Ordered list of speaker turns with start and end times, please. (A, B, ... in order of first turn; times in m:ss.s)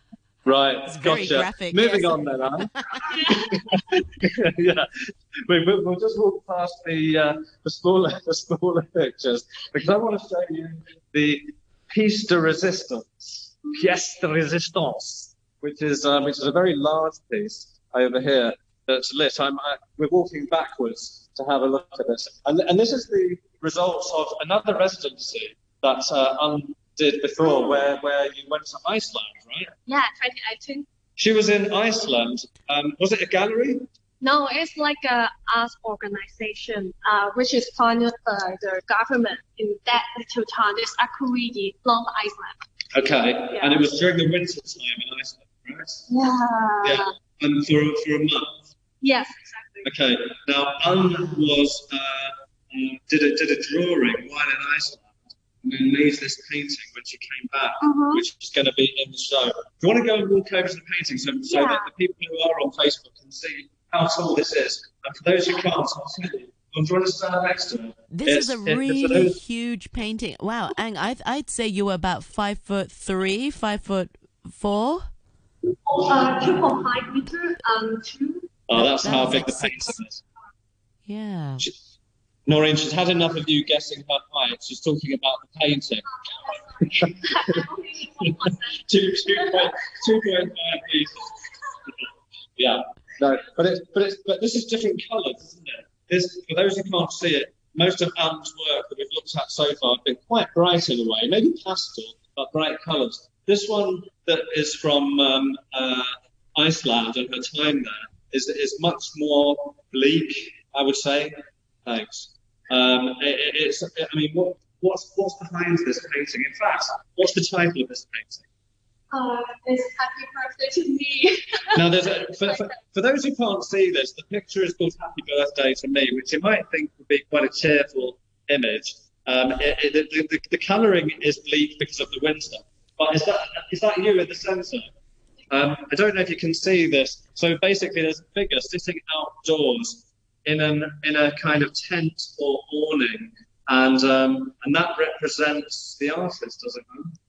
0:00.4-0:02.7 A
0:00.9-0:03.0 B
0:03.0-0:04.0 C
0:03.2-0:04.9 A
0:05.5-0:29.7 A
0:27.4-0:27.8 C
0:29.9-0:30.9 C
0:31.2-0:33.8 A
0:34.2-0:42.6 C
0:42.9-0:46.0 A
0:43.5-0:43.8 C
0:46.1-0:47.1 C
0:46.8-0:48.7 A
0:49.0-0:49.9 C
0:49.8-1:09.4 A
0:57.8-0:58.2 C
1:01.5-1:01.9 C
1:08.1-1:15.1 B
1:15.9-1:18.5 C
1:18.7-1:20.2 A
1:18.7-1:19.9 B
1:21.1-1:21.7 B
1:22.5-1:26.1 A
1:26.1-1:29.7 C
1:26.8-1:27.6 A
1:28.2-1:31.3 A
1:32.6-1:51.3 A
1:51.9-1:58.5 A
1:59.1-2:01.8 C
2:01.8-2:14.9 A
2:02.4-2:02.8 C
2:15.5-2:27.2 A